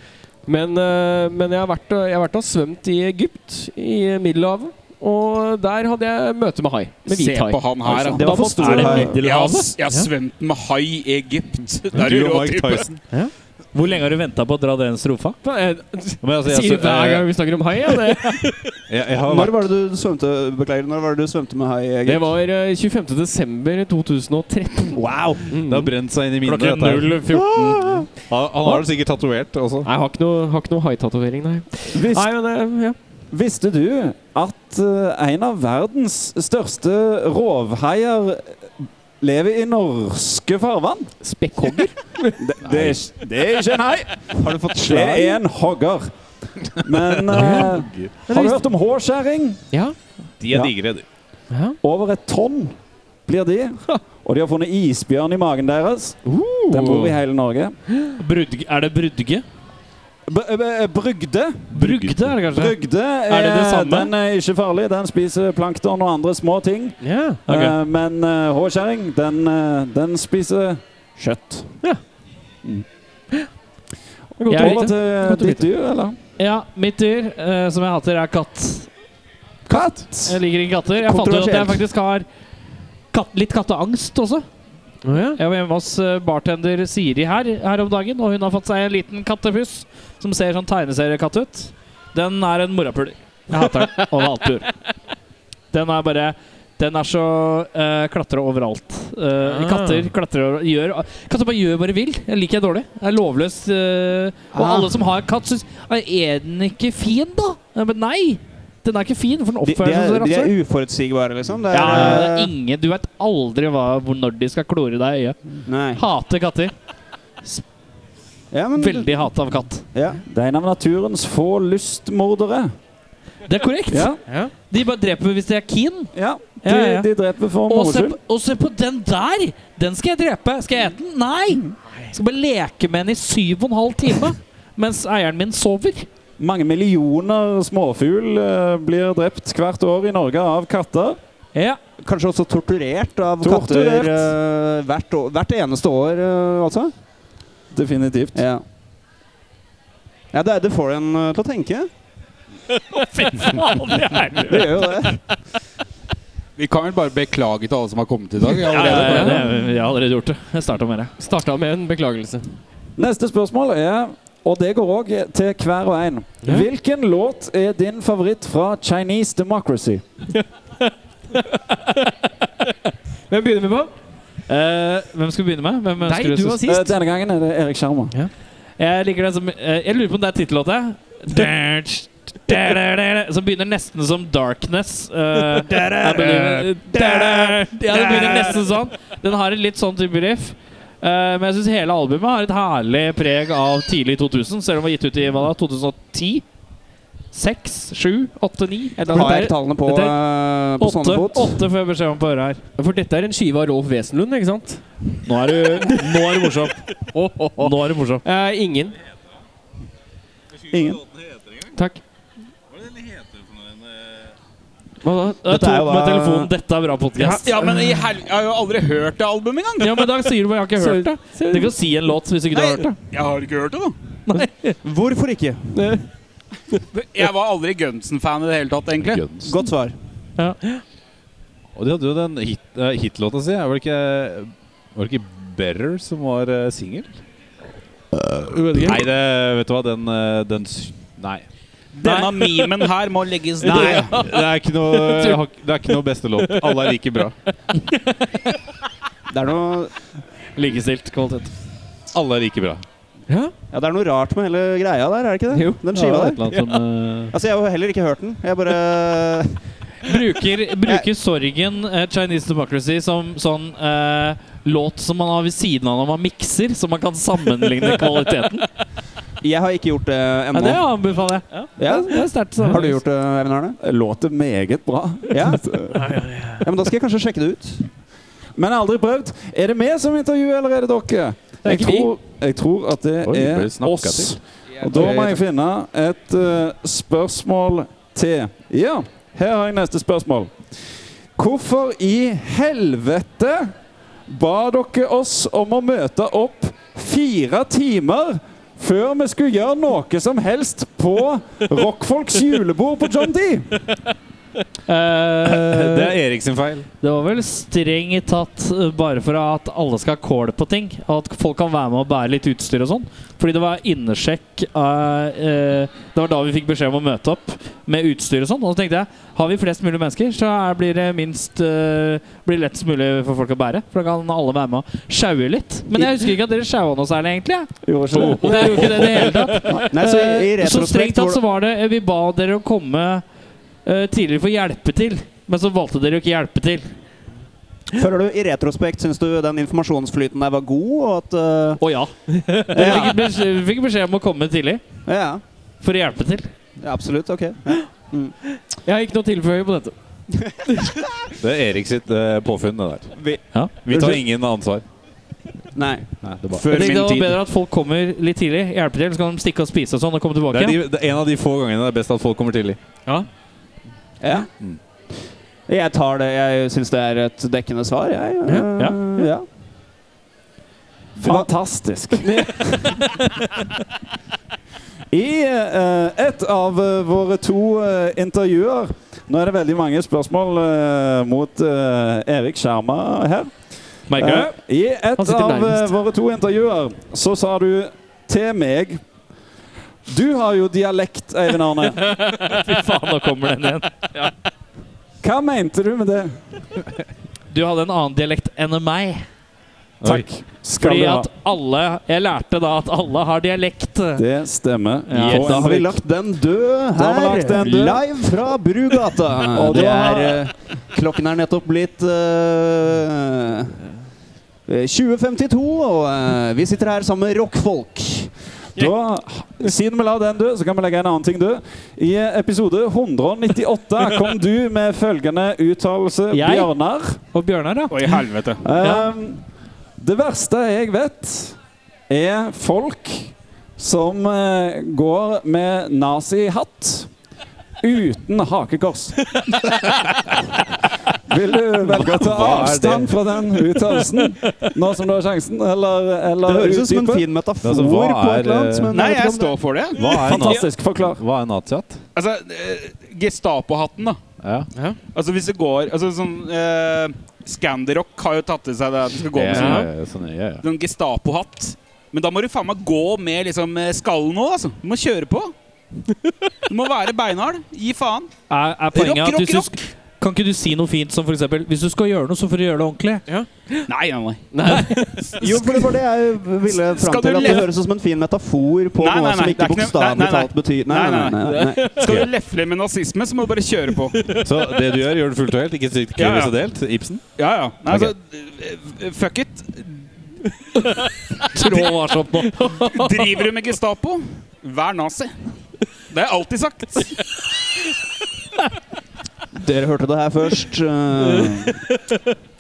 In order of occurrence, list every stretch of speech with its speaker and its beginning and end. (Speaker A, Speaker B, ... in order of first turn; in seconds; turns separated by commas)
Speaker A: 0.5-9.1, Speaker B: 7.1-12.9, Speaker C: 7.8-9.0, Speaker D: 7.9-9.2, Speaker E: 8.5-9.7, Speaker F: 11.9-13.0, Speaker E: 13.7-15.4, Speaker A: 15.4-18.8, Speaker F: 16.2-17.3, Speaker F: 18.9-19.6, Speaker D: 19.2-22.3, Speaker A: 22.0-28.1, Speaker E: 25.1-25.4, Speaker F: 25.6-29.9, Speaker A: 29.8-33.0, Speaker C: 31.9-32.3, Speaker C: 33.3-38.6, Speaker C: 39.2-41.1, Speaker A: 41.2-42.3, Speaker C: 42.4-46.1, Speaker F: 42.6-43.0, Speaker D: 44.4-45.4, Speaker C: 46.8-49.6, Speaker A: 47.3-47.8, Speaker F: 47.5-48.1, Speaker A: 48.3-48.6, Speaker F: 50.4-51.0, Speaker A: 51.5-51.8, Speaker C: 51.8-52.7, Speaker C: 53.2-57.7, Speaker A: 56.2-57.2, Speaker E: 58.2-59.4, Speaker C: 60.3-62.0, Speaker E: 61.7-62.7, Speaker F: 61.9-62.1, Speaker C: 62.5-71.7, Speaker E: 63.3-64.1, Speaker A: 67.0-67.4, Speaker E: 67.5-67.7, Speaker A: 74.4-75.6, Speaker C: 74.5-76.2, Speaker E: 74.5-74.8, Speaker E: 76.4-78.9, Speaker C: 79.7-80.3, Speaker E: 80.2-82.2, Speaker D: 81.0-81.8, Speaker E: 83.1-84.4, Speaker A: 85.0-85.4, Speaker E: 85.4-94.7, Speaker A: 93.6-93.9, Speaker E: 95.7-110.5, Speaker A: 99.4-100.1, Speaker D: 104.5-105.0, Speaker D: 109.6-112.5, Speaker E: 111.7-116.7, Speaker C: 111.9-112.2, Speaker D: 115.7-116.0, Speaker D: 118.5-119.3, Speaker E: 118.8-119.8, Speaker D: 119.9-120.2, Speaker C: 120.2-122.7, Speaker E: 123.5-124.1, Speaker C: 123.9-124.2, Speaker A: 124.3-124.5, Speaker E: 124.7-126.1, Speaker C: 126.1-128.2, Speaker E: 126.6-127.1, Speaker E: 127.7-136.1, Speaker C: 136.4-141.2, Speaker D: 142.0-146.9, Speaker C: 143.4-144.3, Speaker C: 147.7-148.4, Speaker D: 148.3-148.6, Speaker D: 150.3-151.9, Speaker E: 152.9-154.9, Speaker D: 154.4-155.2, Speaker B: 156.6-159.4, Speaker E: 158.7-161.1, Speaker A: 158.8-159.4, Speaker A: 161.2-162.5, Speaker C: 163.0-170.0, Speaker A: 173.3-173.9, Speaker E: 174.5-176.6, Speaker A: 176.0-176.9, Speaker C: 176.6-178.1, Speaker E: 178.8-196.4, Speaker B: 185.7-186.0, Speaker A: 187.1-187.3, Speaker A: 188.0-188.4, Speaker B: 188.0-188.5, Speaker E: 197.3-199.3, Speaker A: 199.0-200.1, Speaker D: 199.0-201.6, Speaker E: 200.8-202.6, Speaker A: 202.8-204.8, Speaker E: 205.2-206.8, Speaker A: 206.1-206.4, Speaker A: 207.1-208.9, Speaker E: 207.6-208.2, Speaker A: 211.7-212.0, Speaker F: 212.8-213.3, Speaker A: 215.0-215.4, Speaker E: 215.4-217.6, Speaker D: 215.4-216.5, Speaker B: 217.3-220.0, Speaker E: 219.8-222.9, Speaker A: 220.8-221.7, Speaker B: 222.5-223.9, Speaker E: 224.3-224.8, Speaker D: 224.8-225.9, Speaker A: 225.7-226.1, Speaker B: 226.9-229.2, Speaker F: 229.0-229.6, Speaker D: 229.4-229.9, Speaker F: 231.7-237.2, Speaker A: 238.3-239.0, Speaker F: 238.7-241.4, Speaker B: 241.9-244.2, Speaker A: 242.1-242.7, Speaker A: 243.7-245.4, Speaker F: 244.0-247.3, Speaker A: 246.4-247.0, Speaker D: 249.3-249.9, Speaker E: 250.6-251.5, Speaker F: 252.1-252.8, Speaker D: 253.7-256.4, Speaker A: 255.5-256.8, Speaker F: 256.1-257.3, Speaker D: 257.3-259.6, Speaker E: 260.0-268.7, Speaker D: 269.4-270.8, Speaker E: 270.5-273.0, Speaker D: 271.8-273.8, Speaker C: 273.8-276.0, Speaker D: 275.3-275.7, Speaker A: 275.9-276.6, Speaker D: 276.6-277.8, Speaker C: 278.6-290.5, Speaker A: 281.6-282.1, Speaker F: 283.2-284.3, Speaker A: 284.9-285.2, Speaker C: 291.4-293.7, Speaker C: 294.3-303.8, Speaker E: 304.9-306.2, Speaker F: 305.4-306.9, Speaker E: 307.0-333.2, Speaker C: 327.8-329.0, Speaker A: 328.1-329.8, Speaker D: 329.9-331.4, Speaker E: 333.8-336.9, Speaker D: 337.9-341.8, Speaker E: 341.8-344.8, Speaker D: 342.7-343.2, Speaker D: 345.1-345.4, Speaker E: 345.8-346.5, Speaker D: 346.8-348.3, Speaker A: 348.8-349.9, Speaker F: 351.4-353.1, Speaker D: 353.1-354.2, Speaker F: 353.8-354.8, Speaker D: 355.7-356.9, Speaker F: 356.2-356.7, Speaker B: 356.6-357.3, Speaker E: 356.7-360.8, Speaker F: 360.5-362.8, Speaker D: 364.2-364.5, Speaker D: 365.7-369.4, Speaker C: 371.2-372.6, Speaker D: 371.2-371.5, Speaker A: 372.2-373.0, Speaker C: 375.1-383.5, Speaker E: 384.1-384.5, Speaker C: 384.1-389.0, Speaker A: 385.2-385.9, Speaker C: 390.1-392.0, Speaker E: 392.0-394.3, Speaker C: 395.2-396.4, Speaker E: 397.5-399.2, Speaker F: 400.0-400.2, Speaker C: 400.0-401.3, Speaker E: 400.7-404.2, Speaker C: 404.2-405.8, Speaker E: 405.1-406.0, Speaker D: 405.2-413.8, Speaker C: 406.9-408.1, Speaker C: 409.5-410.4, Speaker D: 414.7-418.3, Speaker C: 418.8-427.2, Speaker E: 426.3-426.7, Speaker E: 427.3-428.2, Speaker B: 427.9-428.6, Speaker C: 428.6-429.4, Speaker E: 428.8-429.1, Speaker C: 430.0-431.6, Speaker C: 432.1-437.1, Speaker C: 437.8-439.3, Speaker C: 441.3-447.2, Speaker F: 441.9-443.1, Speaker D: 446.4-449.6, Speaker F: 447.6-448.9, Speaker B: 448.9-450.2, Speaker F: 449.9-452.0, Speaker C: 450.2-451.2, Speaker A: 450.2-450.6, Speaker B: 452.1-454.2, Speaker F: 454.4-454.7, Speaker B: 455.1-459.9, Speaker F: 459.3-460.6, Speaker A: 459.5-459.9, Speaker B: 460.6-465.5, Speaker B: 466.7-468.3, Speaker E: 468.5-473.2, Speaker B: 468.9-469.8, Speaker A: 473.3-473.9, Speaker B: 473.9-474.4, Speaker A: 474.5-475.8, Speaker D: 475.4-482.0, Speaker B: 476.7-477.7, Speaker B: 479.0-484.4, Speaker A: 481.4-482.0, Speaker F: 482.0-482.3, Speaker A: 484.2-484.4, Speaker F: 484.4-487.2, Speaker B: 486.1-486.5, Speaker B: 487.4-490.1, Speaker F: 487.9-488.1, Speaker E: 491.5-493.1, Speaker B: 491.5-492.0, Speaker A: 492.6-492.9, Speaker B: 492.8-495.3, Speaker B: 496.1-497.2, Speaker D: 499.5-501.8, Speaker A: 501.4-502.2